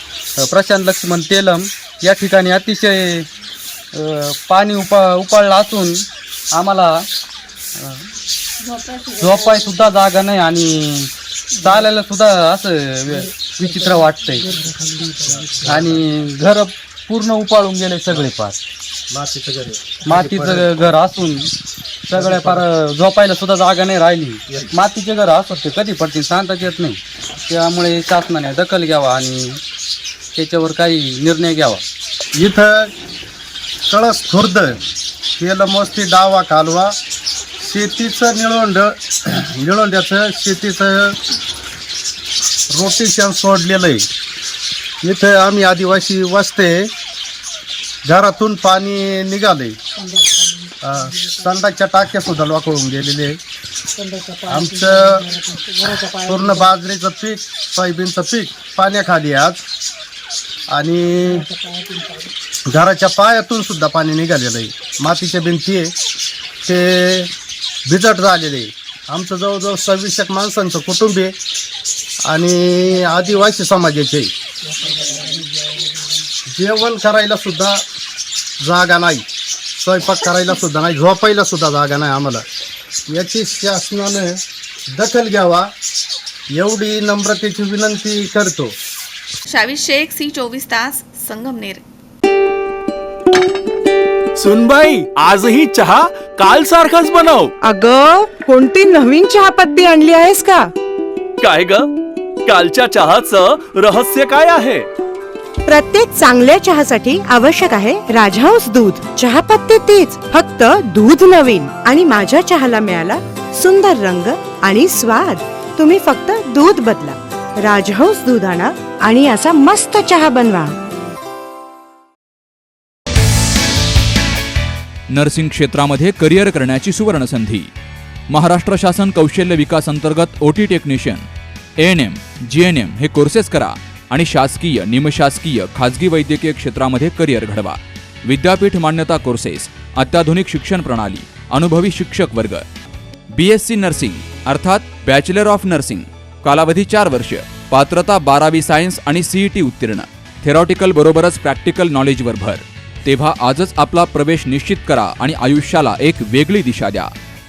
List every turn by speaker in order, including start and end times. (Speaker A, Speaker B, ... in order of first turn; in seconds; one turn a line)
Speaker A: 0.4-3.3
Speaker A: 4.0-7.1
Speaker A: 7.8-8.1
Speaker A: 9.2-14.6
Speaker B: 15.5-15.8
Speaker A: 15.6-18.6
Speaker B: 19.1-20.7
Speaker A: 20.1-21.5
Speaker A: 22.1-29.6
Speaker B: 22.2-22.6
Speaker A: 30.4-31.8
Speaker B: 32.4-32.9
Speaker B: 33.9-34.8
Speaker B: 35.4-36.9
Speaker B: 37.6-41.2
Speaker B: 42.7-44.1
Speaker B: 45.0-46.9
Speaker B: 48.1-49.8
Speaker B: 50.8-53.4
Speaker B: 54.5-55.2
Speaker B: 56.0-59.6
Speaker B: 60.7-61.5
Speaker B: 62.7-65.9
Speaker B: 66.7-67.3
Speaker B: 67.9-71.3
Speaker B: 72.3-74.3
Speaker B: 76.5-77.8
Speaker B: 78.6-79.2
Speaker B: 79.8-82.4
Speaker B: 83.1-84.4
Speaker B: 85.0-85.7
Speaker B: 86.5-88.7
Speaker C: 89.5-91.8
Speaker D: 94.4-97.5
Speaker E: 97.6-100.7
Speaker D: 101.4-101.9
Speaker D: 102.5-104.9
Speaker E: 105.7-120.8
Speaker F: 125.1-127.7
Speaker F: 128.3-131.3
Speaker F: 131.8-142.7
Speaker F: 143.3-157.1